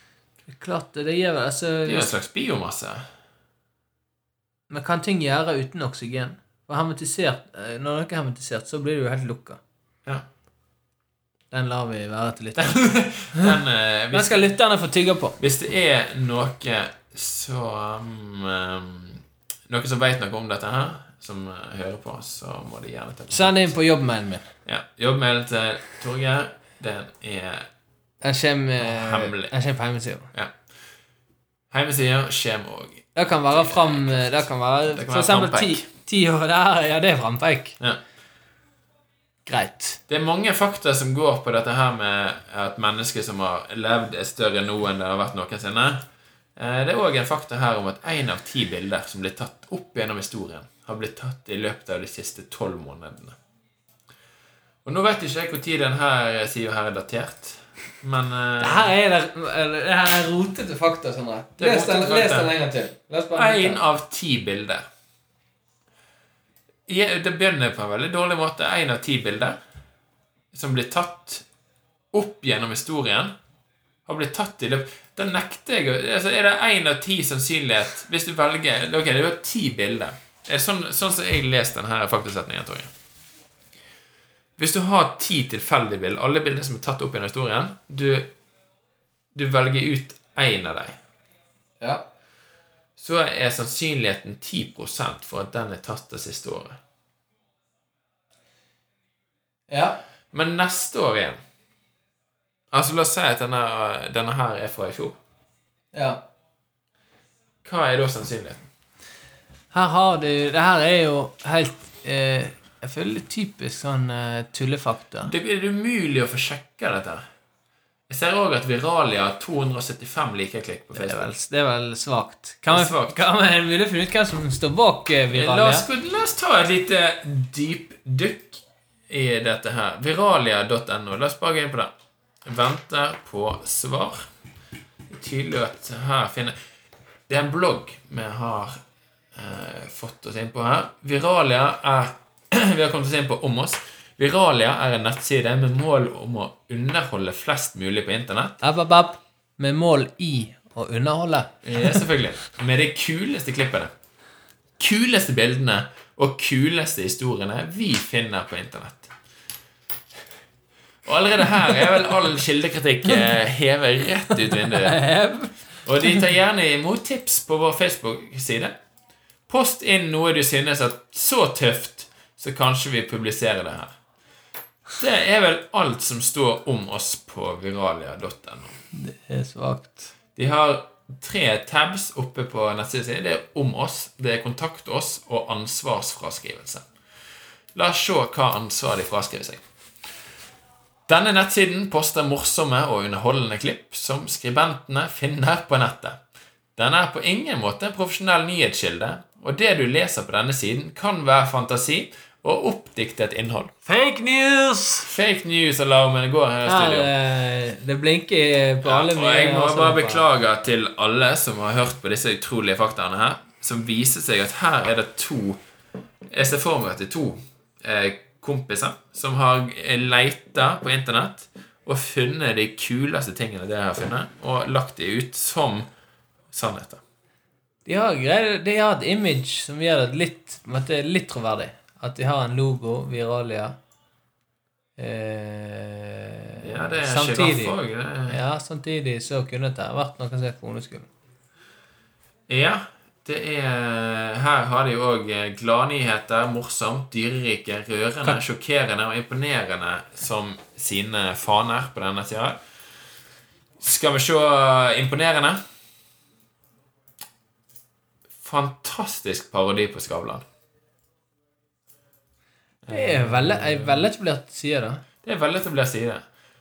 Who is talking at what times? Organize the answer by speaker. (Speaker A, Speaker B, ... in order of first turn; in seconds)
Speaker A: 0.5-2.1, 4.7-9.6, 11.5-13.6, 14.1-15.4, 23.3-24.5, 28.2-30.3, 33.1-37.8, 39.5-40.0, 58.6-63.8, 91.8-92.0, 99.7-100.0, 105.9-106.2, 109.7-115.3, 120.9-125.8, 148.6-152.0, 164.5-165.5, 178.9-180.1, 203.8-205.1, 206.7-210.2, 227.8-233.8, 235.0-237.8, 238.3-241.1, 262.9-265.0
Speaker B: 1.9-3.0, 12.6-14.5, 15.4-23.7, 24.6-27.7, 28.8-29.5, 31.7-35.8, 40.1-46.0, 46.5-53.4, 54.8-58.9, 61.6-62.5, 63.3-64.8, 66.9-69.6, 70.5-71.4, 72.1-73.3, 74.0-82.9, 84.6-88.3, 89.3-91.0, 93.0-96.8, 100.3-101.4, 102.7-105.2, 107.6-108.6, 115.3-117.2, 118.1-121.3, 122.7-123.2, 125.3-131.9, 132.4-134.2, 135.1-136.5, 137.3-138.8, 139.3-148.6, 151.6-153.9, 154.8-159.1, 161.0-165.0, 165.8-168.7, 169.5-173.9, 175.0-178.8, 180.3-186.8, 187.7-189.6, 191.1-196.2, 196.8-203.8, 205.1-207.1, 208.8-215.6, 216.3-225.9, 226.5-227.0, 236.6-238.4, 242.5-252.6, 253.8-255.6, 258.4-260.4, 262.8-264.1, 265.2-266.2